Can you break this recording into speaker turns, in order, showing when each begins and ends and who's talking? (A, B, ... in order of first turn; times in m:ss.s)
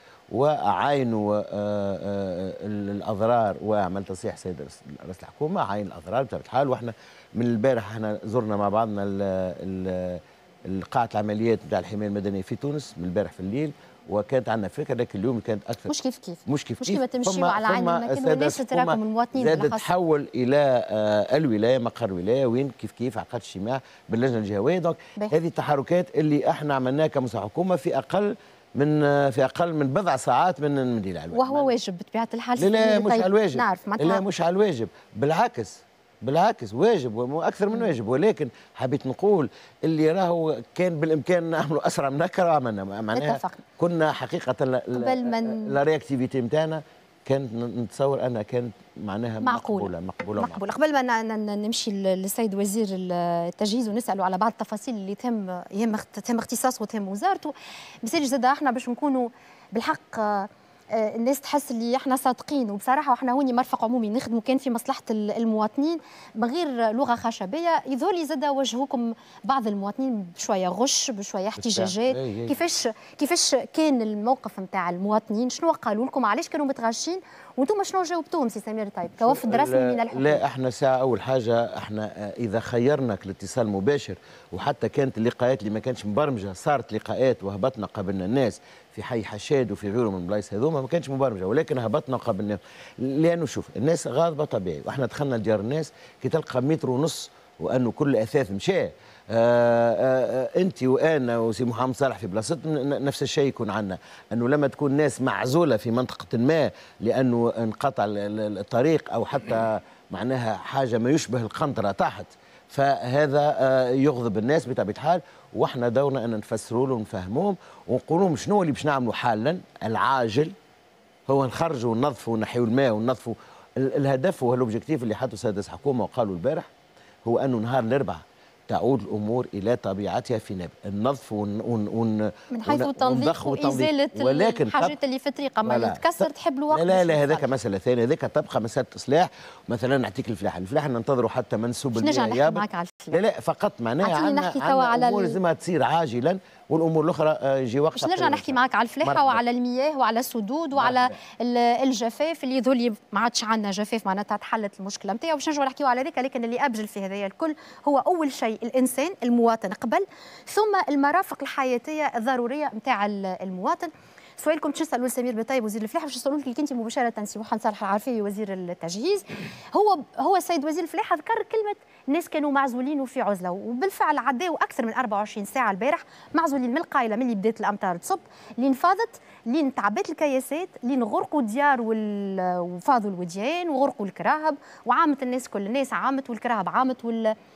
0:00.3-0:15.9 A
0:15.9-0:19.9 B
0:16.5-0:31.7 A
0:31.3-0:34.2 B
0:32.6-0:50.6 A
0:43.1-0:43.6 B
0:45.0-0:45.8 B
0:49.4-1:20.4 B
1:11.6-1:12.6 A
1:19.2-2:00.6 A
2:01.3-2:06.7 A
2:07.3-2:15.0 A
2:12.5-2:17.5 B
2:15.7-2:29.4 A
2:22.0-2:23.2 B
2:24.0-2:25.4 B
2:28.0-3:07.3 B
2:30.8-2:31.2 A